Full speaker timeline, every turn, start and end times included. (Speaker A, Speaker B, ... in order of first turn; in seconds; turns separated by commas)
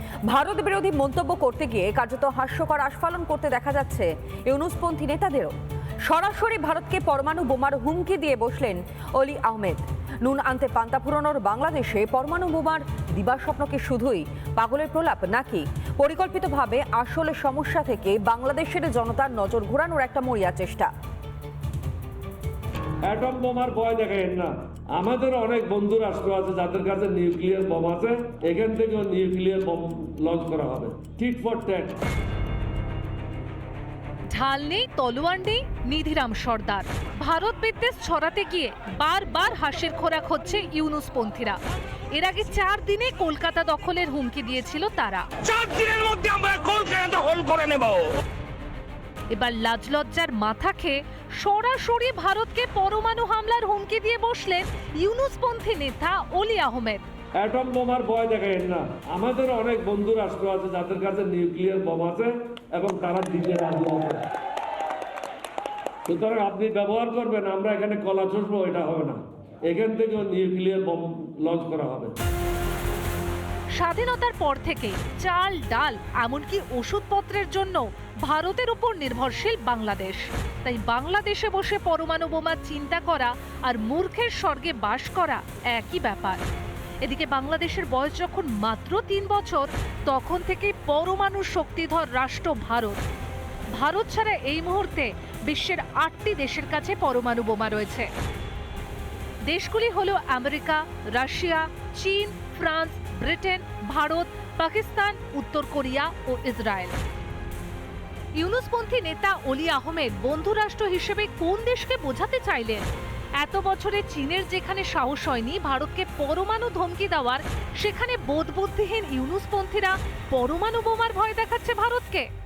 Speaker A: 0.3-5.5, Speaker A: 6.0-20.9, Speaker B: 23.1-32.0, Speaker C: 34.3-41.6, Speaker C: 42.1-45.3, Speaker D: 45.4-48.1, Speaker C: 49.3-57.0, Speaker B: 57.4-64.2, Speaker B: 66.1-72.2, Speaker C: 73.8-86.4, Speaker C: 87.0-93.0, Speaker C: 93.7-98.1, Speaker C: 99.5-106.9, Speaker C: 108.4-112.9, Speaker C: 113.4-122.3